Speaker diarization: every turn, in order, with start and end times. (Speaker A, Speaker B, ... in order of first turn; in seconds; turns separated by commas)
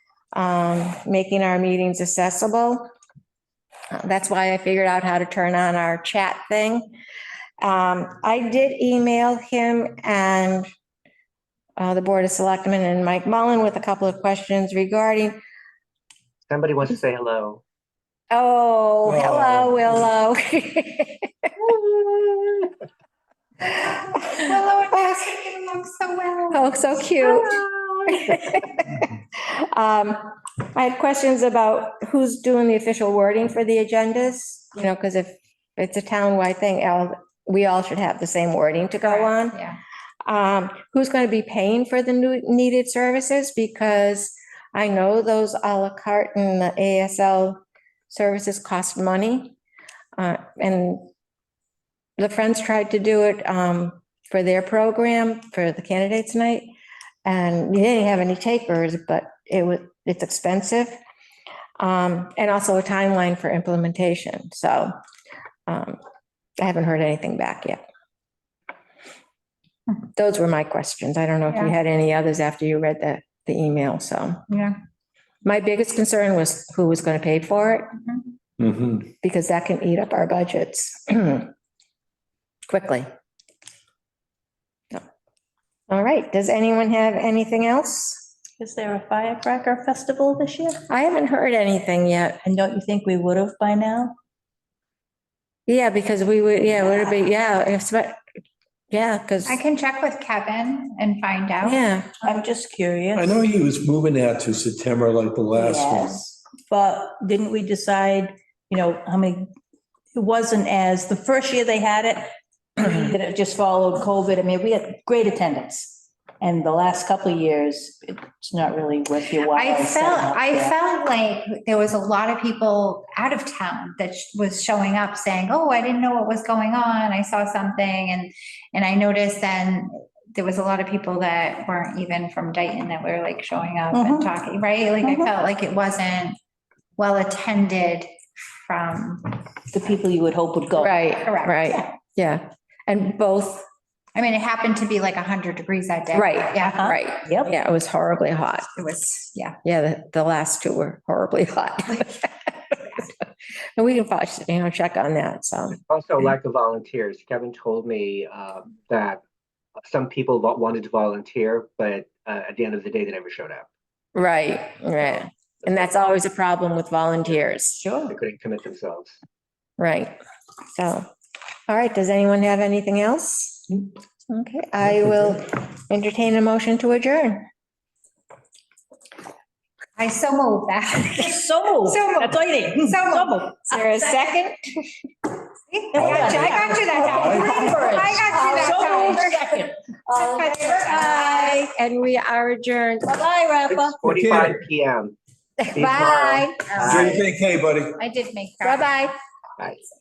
Speaker A: 0.3-2.9, Speaker A: 3.9-6.9, Speaker A: 7.6-10.7, Speaker A: 11.8-15.4, Speaker B: 16.5-17.6, Speaker A: 18.3-21.5, Speaker C: 19.1-20.0, Speaker D: 24.0-27.6, Speaker A: 26.5-39.6, Speaker D: 39.0-39.8, Speaker A: 40.2-49.5, Speaker A: 50.2-51.1, Speaker A: 52.2-56.7, Speaker A: 57.2-61.0, Speaker A: 61.8-65.0, Speaker A: 65.7-66.0, Speaker A: 66.6-67.8, Speaker A: 70.2-74.4, Speaker D: 74.5-74.8, Speaker A: 75.4-78.0, Speaker C: 78.6-79.1, Speaker A: 79.2-81.5, Speaker A: 82.7-83.1, Speaker A: 85.9-88.3, Speaker E: 88.6-90.8, Speaker A: 90.9-92.4, Speaker E: 92.5-94.2, Speaker A: 95.7-98.2, Speaker A: 98.9-99.6, Speaker D: 99.5-101.8, Speaker A: 101.6-102.1, Speaker E: 102.2-103.4, Speaker C: 103.1-106.3, Speaker E: 105.5-109.5, Speaker E: 110.1-120.8, Speaker D: 119.5-136.4, Speaker E: 133.9-134.3, Speaker E: 135.0-135.3, Speaker D: 137.0-138.1, Speaker D: 138.7-139.4, Speaker E: 139.7-141.0, Speaker A: 140.8-143.7, Speaker D: 141.2-141.8, Speaker D: 144.2-147.0, Speaker A: 146.1-148.7, Speaker E: 146.7-147.5, Speaker D: 148.8-149.6, Speaker A: 149.6-153.1, Speaker A: 153.8-155.8, Speaker B: 155.8-159.2, Speaker B: 159.8-163.7, Speaker A: 164.2-167.9, Speaker B: 165.0-165.7, Speaker B: 168.0-169.2, Speaker A: 169.8-170.2, Speaker A: 170.7-171.1, Speaker A: 171.7-177.5, Speaker D: 180.0-184.3, Speaker E: 181.1-183.6, Speaker A: 183.7-184.8, Speaker D: 185.7-189.4, Speaker E: 185.9-189.7, Speaker C: 185.9-187.6, Speaker A: 188.3-193.7, Speaker D: 190.1-191.6, Speaker E: 193.1-194.0, Speaker B: 193.7-195.2, Speaker C: 194.0-194.6, Speaker A: 195.6-197.2, Speaker B: 195.7-197.2, Speaker C: 196.8-198.0, Speaker D: 196.9-197.2, Speaker D: 198.0-199.1, Speaker A: 198.6-199.2